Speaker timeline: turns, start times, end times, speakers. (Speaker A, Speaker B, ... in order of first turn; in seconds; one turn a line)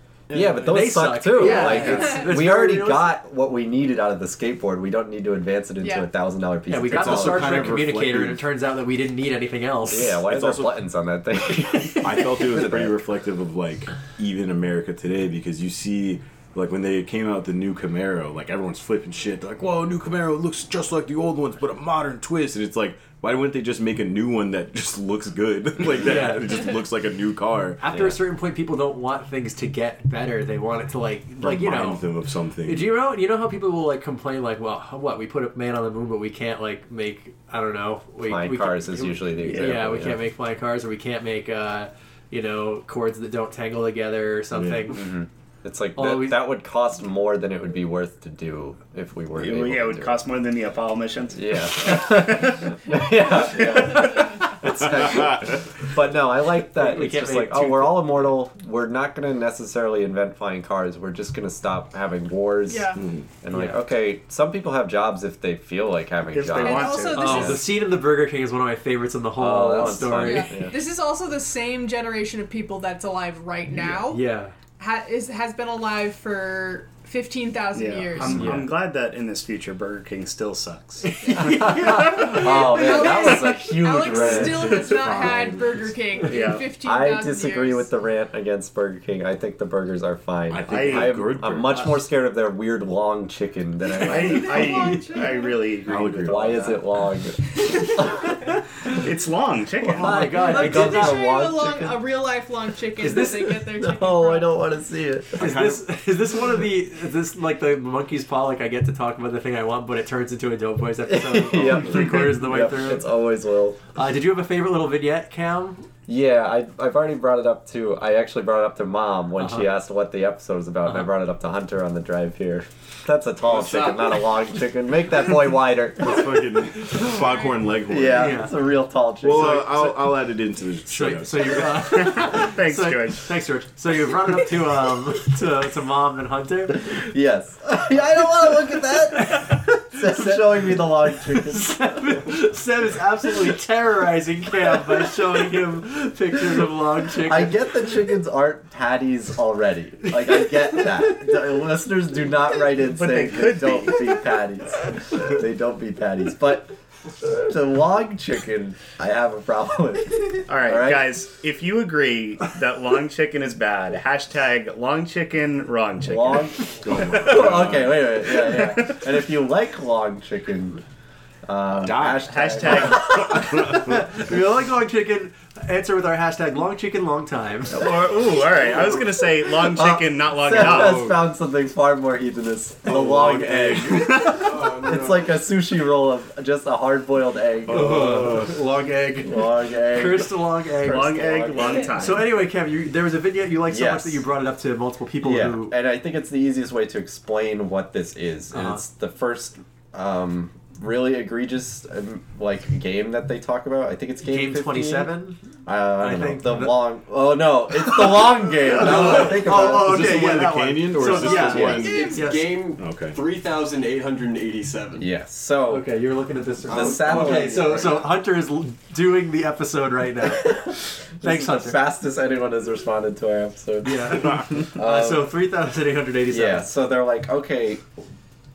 Speaker A: 0.3-7.8
Speaker B: 0.3-3.1
Speaker C: 1.4-2.2
Speaker C: 5.8-6.1
Speaker B: 6.7-10.2
Speaker D: 6.9-8.4
Speaker A: 9.9-12.9
Speaker D: 10.2-10.8
Speaker D: 12.0-27.8
Speaker B: 26.0-26.7
Speaker B: 27.8-32.0
Speaker A: 27.9-28.2
Speaker D: 31.4-32.9
Speaker B: 32.6-45.0
Speaker A: 38.2-40.2
Speaker E: 39.4-39.8
Speaker D: 44.5-45.0
Speaker A: 44.9-50.2
Speaker B: 46.0-46.5
Speaker E: 49.3-52.8
Speaker A: 51.3-67.6
Speaker E: 53.5-54.2
Speaker D: 54.9-55.6
Speaker B: 56.7-58.3
Speaker C: 62.6-63.0
Speaker D: 63.0-63.2
Speaker B: 63.5-63.8
Speaker E: 66.3-67.5
Speaker C: 66.5-67.6
Speaker B: 67.1-70.5
Speaker A: 69.4-70.7
Speaker C: 70.2-74.2
Speaker B: 74.1-74.5
Speaker C: 74.8-78.4
Speaker E: 77.7-82.3
Speaker B: 78.3-78.7
Speaker B: 81.0-82.0
Speaker A: 81.3-85.3
Speaker C: 82.0-87.9
Speaker D: 84.2-85.9
Speaker E: 86.2-86.7
Speaker A: 86.8-95.0
Speaker D: 90.5-92.0
Speaker E: 90.7-91.2
Speaker E: 94.0-96.8
Speaker C: 94.1-95.6
Speaker D: 95.9-96.8
Speaker A: 96.2-98.6
Speaker E: 98.8-100.3
Speaker A: 99.8-102.0
Speaker B: 100.0-101.3
Speaker C: 100.4-104.5
Speaker B: 103.0-103.5
Speaker A: 103.1-105.6
Speaker B: 105.4-113.1
Speaker D: 105.4-105.8
Speaker A: 111.0-113.8
Speaker B: 113.9-115.8
Speaker A: 116.1-126.6
Speaker B: 119.4-119.7
Speaker D: 123.5-124.0
Speaker D: 126.0-128.5
Speaker A: 127.8-129.9
Speaker B: 128.2-128.5
Speaker D: 129.2-131.7
Speaker B: 129.4-129.9
Speaker B: 130.9-136.8
Speaker E: 131.7-133.3
Speaker A: 136.8-142.3
Speaker B: 141.5-147.6
Speaker A: 147.2-161.1
Speaker B: 150.4-150.8
Speaker E: 152.7-154.2
Speaker E: 160.5-167.7
Speaker A: 166.0-170.8
Speaker D: 166.8-168.1
Speaker E: 168.2-169.0
Speaker A: 171.4-173.6
Speaker D: 171.8-174.0
Speaker E: 171.9-173.4
Speaker B: 173.1-177.8
Speaker E: 177.7-181.2
Speaker A: 179.6-188.5
Speaker D: 180.5-181.2
Speaker D: 182.8-184.2
Speaker E: 184.0-184.3
Speaker F: 184.3-185.3
Speaker D: 187.7-188.4
Speaker B: 187.7-191.2
Speaker A: 189.2-192.0
Speaker E: 190.8-192.3
Speaker B: 191.9-195.7
Speaker A: 193.7-194.2
Speaker A: 195.2-205.1
Speaker B: 198.5-198.8
Speaker B: 204.2-205.4
Speaker A: 205.7-212.0
Speaker B: 206.0-206.8
Speaker B: 208.7-212.6
Speaker D: 209.0-212.2
Speaker F: 211.5-215.1
Speaker C: 211.7-212.4
Speaker D: 212.8-213.2
Speaker A: 215.0-215.9
Speaker B: 215.7-221.8
Speaker A: 216.7-217.8
Speaker F: 216.7-218.1
Speaker A: 220.2-225.3
Speaker B: 223.8-226.7
Speaker A: 226.3-227.8